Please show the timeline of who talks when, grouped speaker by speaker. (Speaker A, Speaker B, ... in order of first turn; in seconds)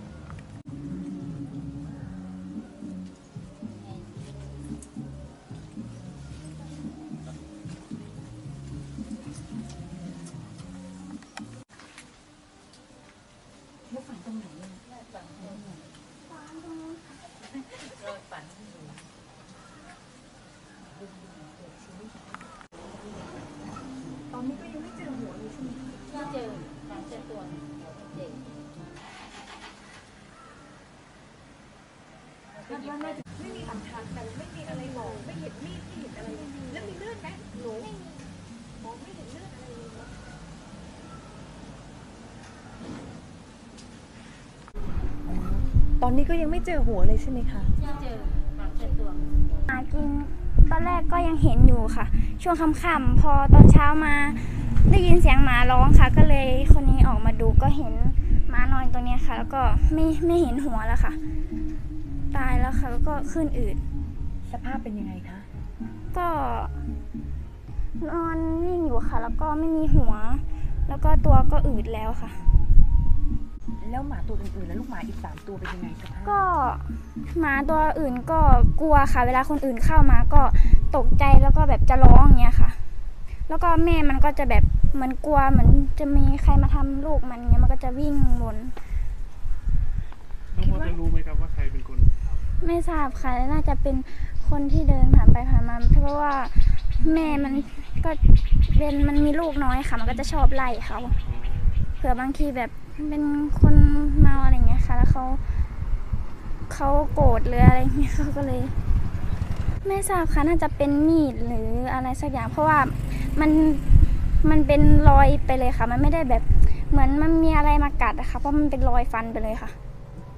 Speaker A: 13.9-14.8, 15.4-15.8, 24.3-26.1, 32.7-37.9, 38.9-40.0, 45.2-47.8, 64.4-65.5, 73.8-76.4
Speaker B: 15.0-15.7, 18.0-19.0, 26.1-28.5, 32.7-33.2, 47.8-49.4
Speaker C: 16.4-16.9, 49.7-61.2, 62.3-63.8, 66.1-66.7, 68.0-72.4, 76.2-82.8, 83.5-88.8, 90.6-90.9, 92.6-101.2, 102.0-105.4, 106.7-108.8, 109.8-119.8
Speaker D: 90.5-92.5, 101.2-101.9